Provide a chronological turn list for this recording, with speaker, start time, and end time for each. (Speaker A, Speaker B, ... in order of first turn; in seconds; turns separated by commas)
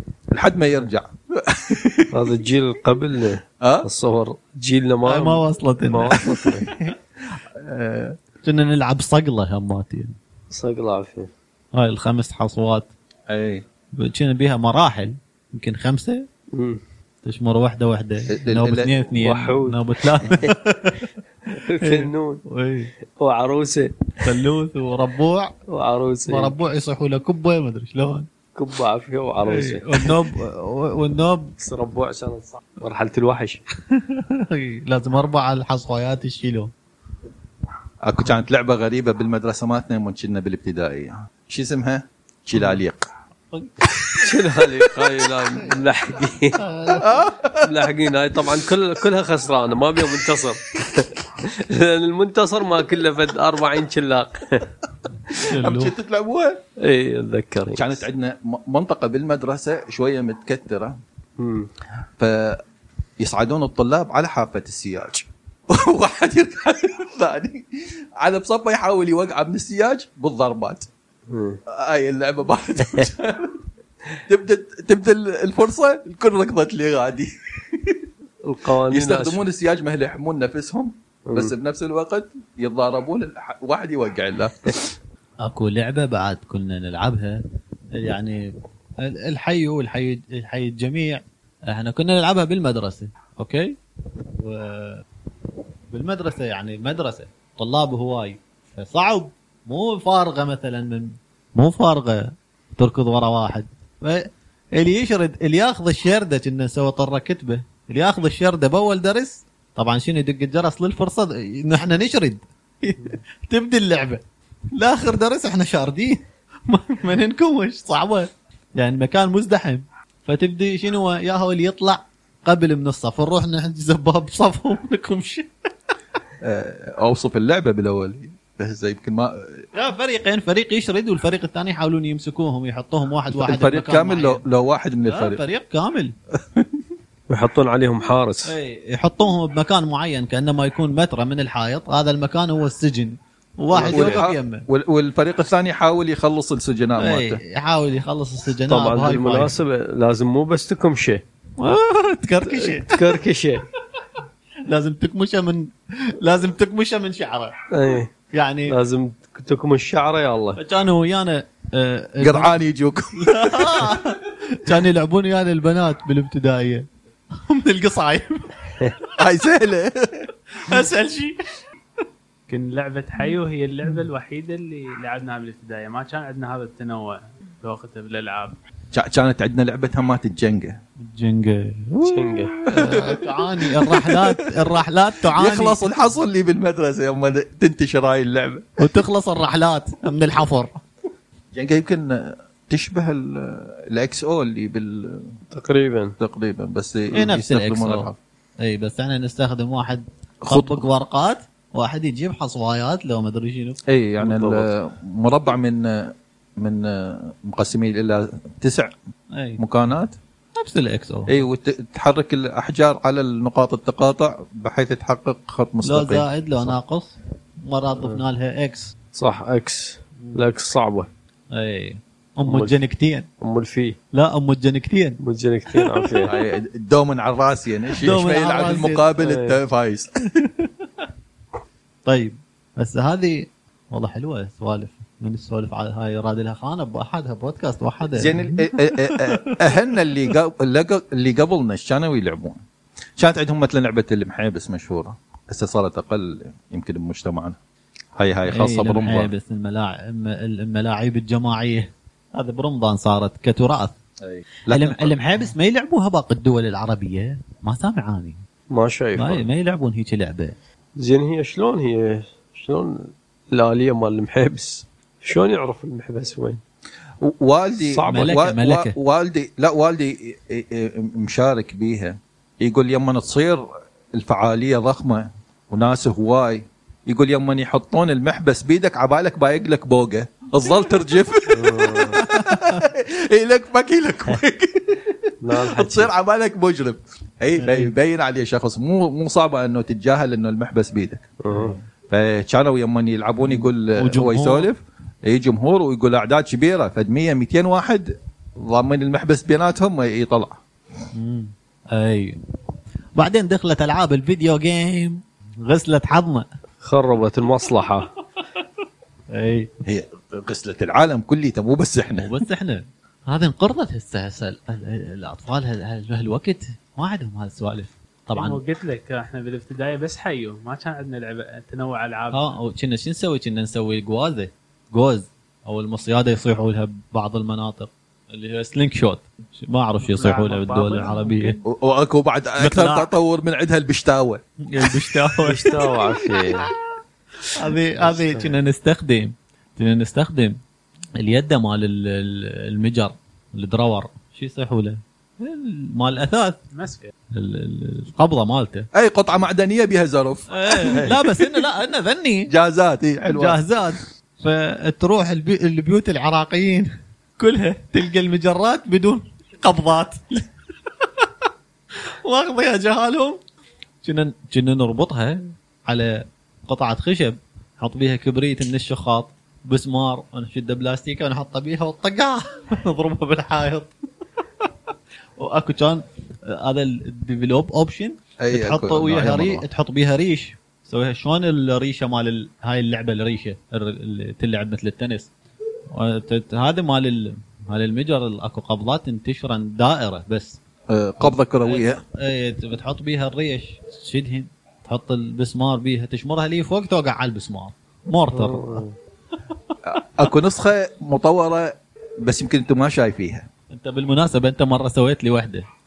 Speaker A: 0.3-2.3, Speaker B: 2.1-6.7, Speaker A: 3.6-3.9, Speaker C: 5.0-6.2, Speaker A: 6.2-8.2, Speaker C: 8.4-10.2, Speaker B: 10.5-11.3, Speaker C: 11.7-12.9, Speaker A: 13.3-13.6, Speaker C: 14.0-16.2, Speaker B: 16.5-16.8, Speaker C: 17.2-21.1, Speaker A: 18.3-18.9, Speaker B: 19.1-20.6, Speaker B: 21.5-22.4, Speaker C: 21.6-22.9, Speaker B: 23.2-24.1, Speaker C: 24.2-25.5, Speaker B: 25.7-26.5, Speaker C: 26.3-28.2, Speaker B: 28.6-30.1, Speaker C: 29.4-31.5, Speaker B: 31.6-33.6, Speaker C: 33.9-36.7, Speaker A: 38.0-43.0, Speaker A: 43.9-44.3, Speaker B: 44.2-46.6, Speaker A: 44.9-45.4, Speaker C: 46.6-47.1, Speaker A: 46.9-48.6, Speaker B: 47.6-54.7, Speaker C: 55.5-55.9, Speaker A: 55.6-56.6, Speaker B: 56.8-58.0, Speaker A: 57.7-61.0, Speaker B: 61.4-61.7, Speaker A: 62.2-62.6, Speaker A: 63.2-70.9, Speaker B: 71.3-71.6, Speaker A: 71.7-73.6, Speaker A: 74.3-78.1, Speaker B: 78.4-79.4, Speaker A: 78.8-84.9, Speaker B: 81.3-81.5, Speaker C: 85.4-87.4, Speaker C: 88.0-88.5, Speaker C: 89.0-93.7, Speaker C: 94.4-95.0, Speaker C: 95.9-114.2, Speaker C: 114.7-125.5, Speaker A: 126.4-129.6, Speaker C: 129.7-134.4, Speaker A: 133.3-135.4, Speaker C: 135.1-136.1, Speaker B: 137.3-138.5, Speaker C: 138.4-144.6, Speaker B: 143.7-144.2, Speaker A: 143.8-147.4, Speaker C: 147.0-149.6, Speaker B: 148.7-151.2, Speaker C: 151.6-153.1, Speaker B: 152.4-153.6, Speaker C: 154.7-157.5, Speaker B: 157.7-158.1, Speaker C: 158.3-158.7, Speaker B: 158.7-160.6, Speaker C: 160.6-162.5, Speaker A: 162.2-164.0, Speaker C: 163.2-166.8, Speaker C: 167.5-168.5, Speaker A: 169.2-170.3, Speaker C: 170.6-171.5, Speaker D: 172.5-178.6, Speaker A: 178.9-180.8, Speaker C: 181.0-185.8, Speaker B: 182.0-182.6, Speaker A: 182.7-184.4, Speaker A: 185.3-188.8, Speaker C: 188.8-190.8, Speaker A: 191.5-195.4, Speaker B: 195.5-196.1, Speaker A: 196.2-198.2, Speaker C: 197.1-198.1, Speaker C: 198.6-203.8, Speaker A: 200.4-200.8, Speaker A: 203.9-208.9, Speaker B: 204.2-204.7, Speaker C: 209.3-209.6, Speaker A: 209.6-210.1, Speaker C: 210.6-211.4, Speaker A: 211.3-216.8, Speaker C: 215.8-217.1, Speaker C: 217.6-218.9, Speaker B: 219.2-221.1, Speaker C: 220.2-220.5, Speaker C: 221.5-223.2, Speaker B: 222.4-222.8, Speaker B: 223.4-223.9, Speaker C: 224.1-225.2, Speaker B: 225.2-226.3, Speaker C: 225.8-226.2, Speaker A: 226.2-230.4, Speaker C: 228.0-229.0, Speaker B: 229.2-229.6, Speaker C: 232.1-239.6, Speaker A: 238.2-242.6, Speaker A: 243.2-247.6, Speaker A: 248.2-249.3, Speaker C: 248.5-253.9, Speaker A: 254.2-255.5, Speaker C: 254.7-258.4, Speaker B: 258.7-259.4, Speaker C: 259.2-260.6, Speaker B: 261.0-266.6, Speaker A: 267.2-291.3, Speaker B: 267.8-268.3, Speaker C: 268.1-268.9, Speaker B: 281.5-282.2, Speaker B: 285.4-286.1, Speaker C: 287.6-287.9, Speaker B: 291.4-291.8, Speaker A: 292.1-300.6, Speaker C: 294.0-294.7, Speaker C: 301.1-302.4, Speaker C: 303.2-306.4, Speaker B: 306.8-308.1, Speaker C: 309.3-309.7, Speaker A: 309.8-312.3, Speaker C: 312.2-318.6, Speaker D: 318.4-322.6, Speaker C: 322.3-331.5, Speaker D: 330.0-331.6, Speaker A: 331.6-335.1, Speaker C: 332.6-333.1, Speaker C: 334.6-335.9, Speaker B: 335.4-336.7, Speaker C: 337.5-340.6, Speaker B: 338.0-338.6, Speaker C: 341.2-346.6, Speaker D: 346.7-347.1, Speaker C: 347.3-348.9, Speaker A: 348.9-351.1, Speaker C: 350.5-352.5, Speaker B: 350.9-351.1, Speaker A: 352.5-353.6, Speaker C: 353.3-360.5, Speaker C: 362.2-363.4, Speaker C: 364.0-373.9, Speaker C: 375.4-385.3, Speaker A: 378.4-379.6, Speaker C: 385.9-390.6, Speaker A: 390.9-392.0, Speaker C: 391.2-398.8, Speaker B: 398.3-399.0, Speaker A: 399.8-403.5, Speaker C: 403.7-405.6